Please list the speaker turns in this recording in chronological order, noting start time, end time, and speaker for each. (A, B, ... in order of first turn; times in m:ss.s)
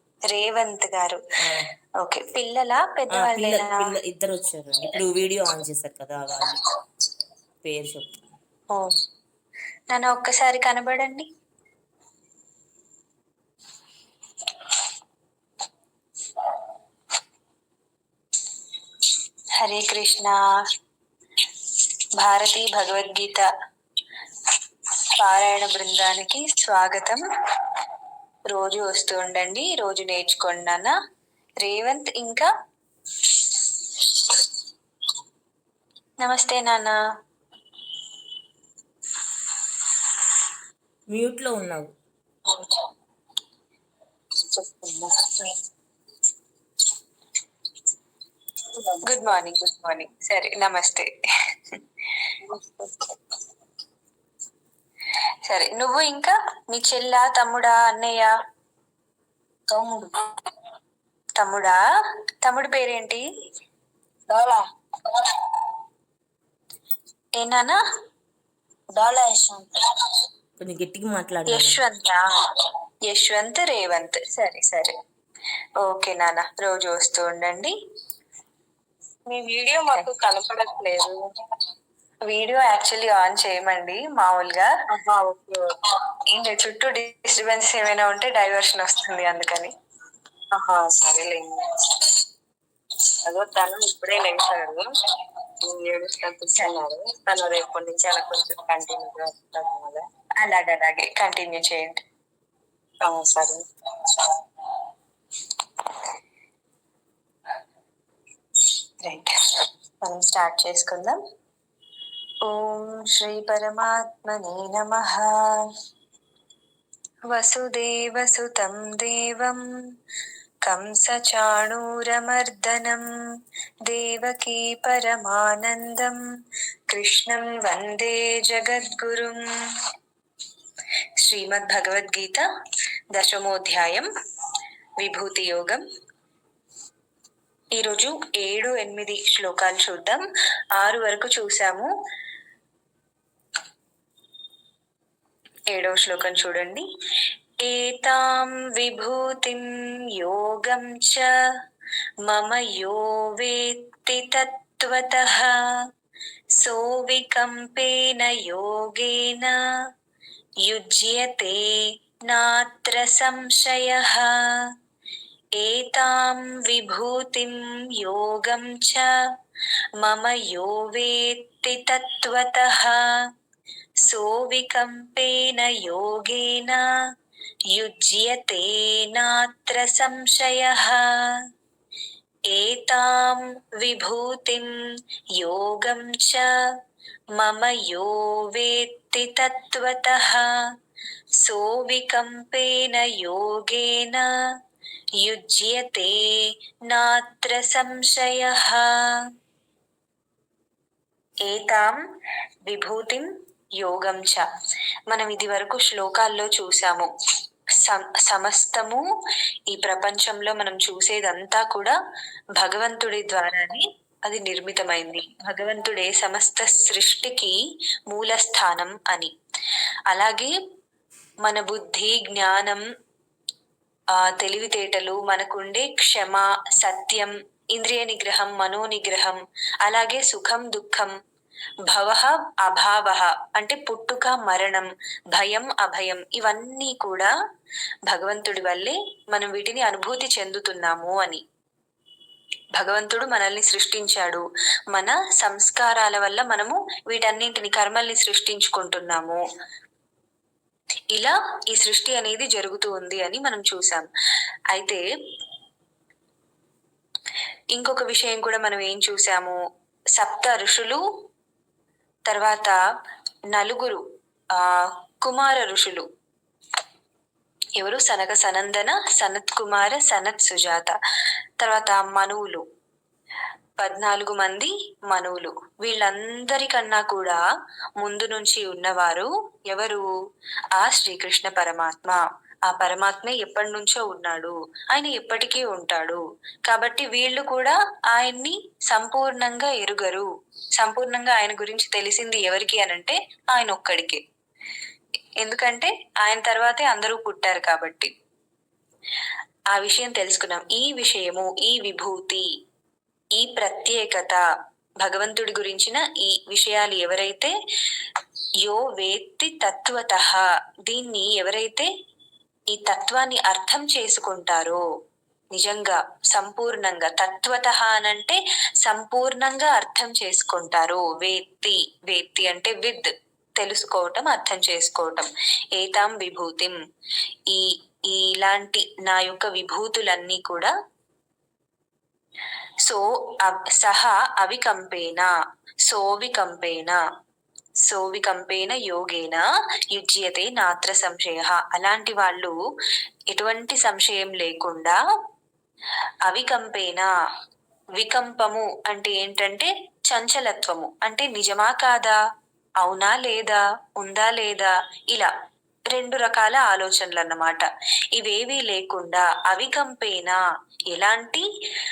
0:00.3-0:01.2 A
0:01.4-0:01.6 B
0:02.0-0:03.9 A
0:03.1-0:06.6 B
0:07.6-0:08.2 B
0:09.9-0:11.3 A
0:19.6-0:20.4 A
0:22.2-0:23.5 A
0:25.2-0:27.2 A
0:28.5-0:30.9 A
0:31.6-0:32.5 A
0:33.3-0:33.7 A
0:36.2-0:37.0 A
0:41.1-0:41.9 B
0:44.5-0:45.5 C
0:48.7-0:49.1 C
0:49.0-0:51.1 A
0:52.5-0:53.0 C
0:55.4-0:58.3 A
0:59.7-1:00.2 C
1:01.4-1:01.8 A
1:02.4-1:03.2 A
1:04.3-1:05.3 C
1:07.4-1:07.8 A
1:09.0-1:09.8 C
1:10.6-1:11.8 B
1:11.5-1:12.2 A
1:13.1-1:14.9 A
1:15.8-1:17.7 A
1:19.2-1:21.2 C
1:22.3-1:24.7 A
1:24.9-1:25.7 C
1:26.3-1:29.7 A
1:30.5-1:32.1 C
1:33.2-1:34.9 C
1:35.6-1:40.0 C
1:40.4-1:42.0 A
1:43.0-1:44.3 C
1:49.0-1:49.3 A
1:50.0-1:51.2 A
1:52.4-1:55.6 A
1:57.3-1:59.6 A
2:00.6-2:03.0 A
2:03.8-2:06.2 A
2:06.9-2:09.4 A
2:11.2-2:12.4 A
2:13.1-2:14.1 A
2:15.0-2:15.8 A
2:17.7-2:20.2 A
2:20.8-2:21.9 A
2:25.7-2:26.8 A
2:27.6-2:29.6 A
2:30.2-2:31.3 A
2:32.2-2:35.5 A
2:36.6-2:39.6 A
2:40.6-2:44.3 A
2:45.6-2:49.1 A
2:50.0-2:53.0 A
2:54.0-2:56.8 A
2:57.7-3:01.0 A
3:02.5-3:04.7 A
3:05.4-3:06.5 A
3:07.4-3:10.5 A
3:11.4-3:14.3 A
3:15.2-3:16.3 A
3:16.9-3:19.0 A
3:21.4-3:22.0 A
3:22.6-3:23.3 A
3:23.8-3:24.4 A
3:25.1-3:27.1 A
3:27.8-3:29.0 A
3:29.7-3:31.9 A
3:32.6-3:37.5 A
3:38.1-3:39.3 A
3:40.1-3:40.5 A
3:41.4-3:42.8 A
3:44.2-3:51.1 A
3:51.9-3:57.3 A
3:58.1-4:01.4 A
4:02.7-4:09.4 A
4:11.1-4:14.1 A
4:14.7-4:15.0 A
4:17.7-4:19.6 A
4:20.1-4:21.0 A
4:22.3-4:22.8 A
4:23.5-4:24.0 A
4:25.2-4:26.0 A
4:27.8-4:31.0 A
4:31.6-4:32.6 A
4:33.8-4:37.4 A
4:38.0-4:40.0 A
4:40.8-4:54.2 A
4:55.4-4:58.1 A
4:59.7-5:02.4 A
5:03.4-5:04.4 A
5:05.0-5:07.5 A
5:08.6-5:11.9 A
5:12.7-5:14.8 A
5:15.5-5:26.8 A
5:27.5-5:30.7 A
5:32.8-5:35.3 A
5:35.8-5:37.0 A
5:37.8-5:42.5 A
5:43.3-5:45.0 A
5:46.2-5:47.1 A
5:48.0-5:52.2 A
5:52.8-5:55.3 A
5:55.9-6:00.4 A
6:00.9-6:01.4 A